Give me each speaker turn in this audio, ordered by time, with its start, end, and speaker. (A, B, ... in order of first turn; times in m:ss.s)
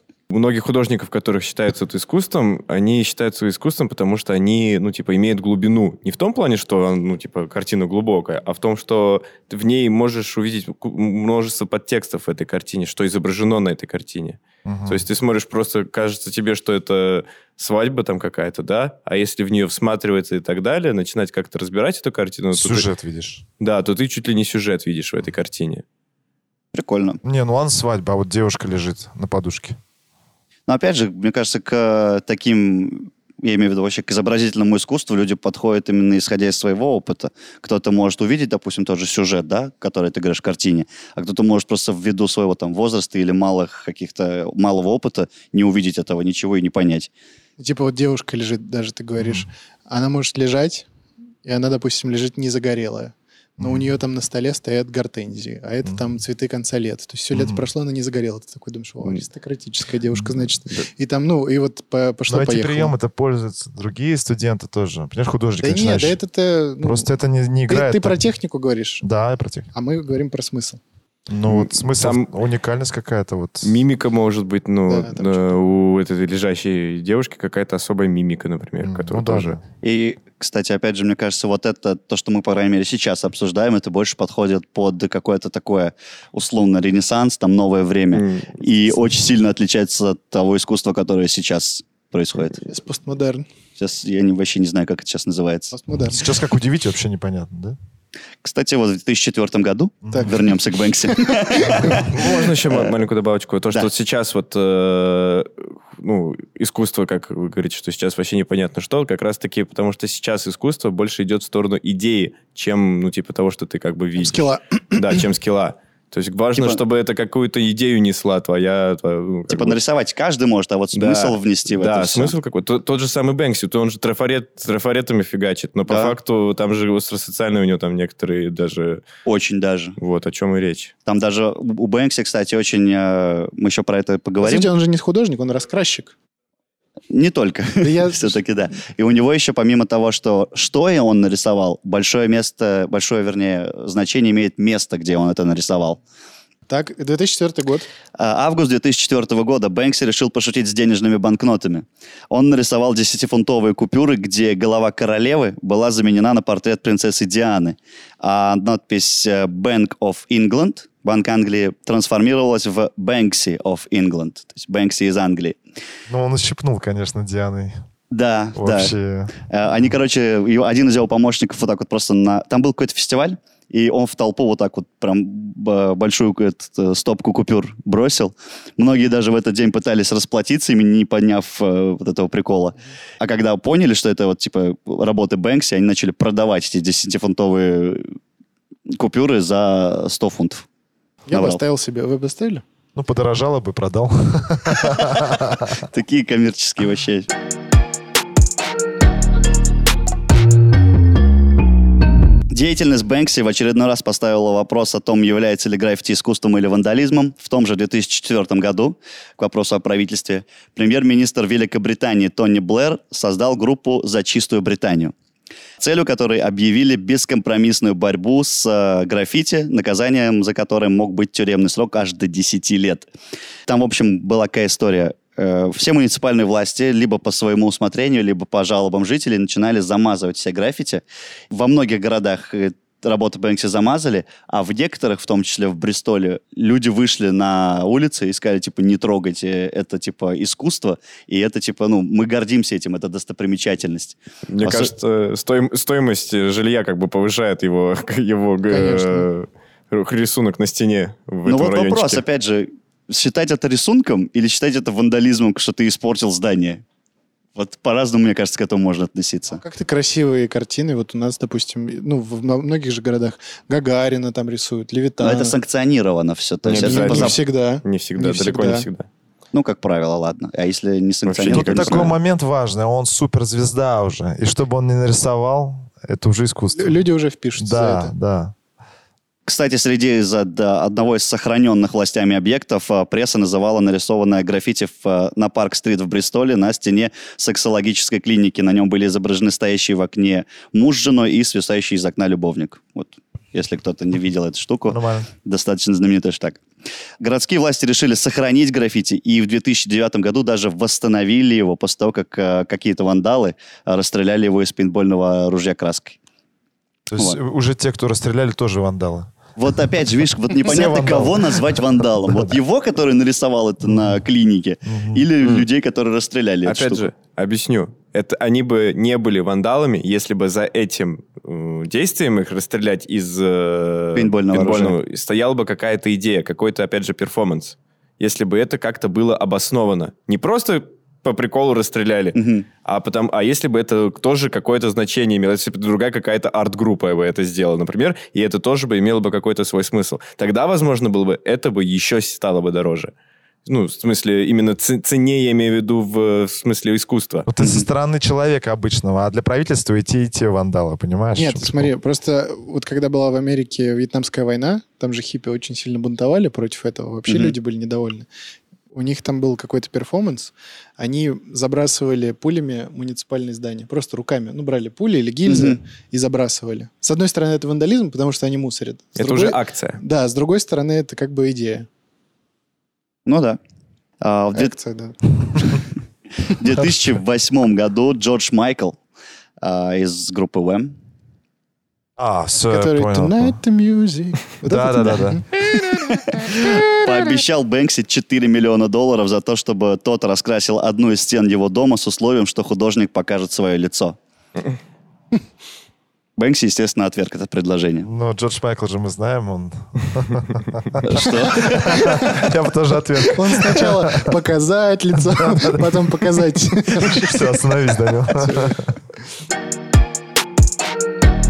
0:00.3-0:22.9 A
0:14.6-0:15.0 B
0:22.5-0:23.4 B
0:23.6-0:25.8 A
0:26.7-0:27.2 C
0:27.2-0:29.8 B
0:30.7-0:47.1 C
0:47.6-0:50.9 D
0:49.2-0:49.5 B
0:51.4-1:02.9 D
0:57.3-0:57.6 B
1:02.3-1:06.2 B
1:05.6-1:07.1 D
1:06.8-1:08.2 B
1:07.7-1:09.0 D
1:09.0-1:09.7 B
1:09.7-1:10.8 D
1:11.3-1:13.8 B
1:11.5-1:12.3 A
1:13.6-1:19.6 A
1:14.9-1:15.6 D
1:18.8-1:19.6 B
1:19.8-1:32.6 C
1:28.1-1:28.5 A
1:32.6-1:33.4 D
1:33.8-1:35.7 C
1:35.7-1:36.2 D
1:36.1-1:37.8 B
1:38.4-1:42.1 C
1:40.1-1:40.4 D
1:41.0-1:42.4 D
1:42.0-1:59.8 A
1:54.2-1:55.2 D
1:56.6-1:56.8 C
1:59.5-2:02.3 C
2:00.9-2:09.0 A
2:05.9-2:06.1 C
2:09.2-2:10.0 C
2:10.0-2:10.9 A
2:11.0-2:14.7 C
2:14.4-2:16.1 D
2:17.1-2:26.0 C
2:17.8-2:18.4 D
2:26.7-2:27.9 D
2:28.2-2:45.6 C
2:46.1-2:47.8 B
2:48.1-2:48.9 C
2:48.6-2:49.4 B
2:49.5-3:08.0 C
3:09.0-3:10.6 C
3:11.3-3:12.6 D
3:11.3-3:11.6 C
3:12.9-3:15.8 B
3:15.8-3:17.3 C
3:22.5-3:35.1 C
3:35.8-3:43.1 C
3:43.7-4:04.9 C
4:04.5-4:12.2 A
4:08.7-4:09.3 D
4:11.5-4:16.8 C
4:17.6-4:19.6 C
4:19.5-4:25.5 D
4:25.2-4:27.4 C
4:26.6-4:29.1 A
4:26.8-4:28.9 D
4:29.5-4:32.1 C
4:31.2-4:32.1 A
4:31.5-4:37.0 B
4:36.7-4:38.1 D
4:37.6-4:38.5 B
4:39.4-4:56.6 C
4:54.9-4:55.3 B
4:57.2-5:06.2 C
5:07.1-5:09.4 B
5:09.6-5:17.0 C
5:10.5-5:12.6 B
5:13.8-5:14.2 B
5:14.8-5:15.3 B
5:15.4-5:15.7 A
5:16.6-5:43.1 A
5:24.1-5:25.0 C
5:32.3-5:32.6 C
5:43.6-5:47.5 A
5:47.5-5:51.9 B
5:47.6-5:47.9 C
5:51.4-5:58.3 D
5:57.3-5:57.5 C
5:58.9-6:11.9 D
6:05.5-6:05.8 C
6:09.2-6:10.0 A
6:13.2-6:13.6 C
6:14.2-6:14.7 C
6:14.5-6:15.8 D
6:16.4-6:19.0 C
6:19.6-6:21.0 C
6:22.2-6:23.6 B
6:22.5-6:26.8 D
6:24.6-6:25.4 B
6:25.9-6:34.2 C
6:36.4-6:38.1 C
6:38.0-6:44.3 B
6:41.0-6:42.2 C
6:41.8-6:42.4 D
6:43.2-6:47.6 D
6:45.3-6:46.3 B
6:46.9-6:48.9 B
6:48.4-6:48.8 D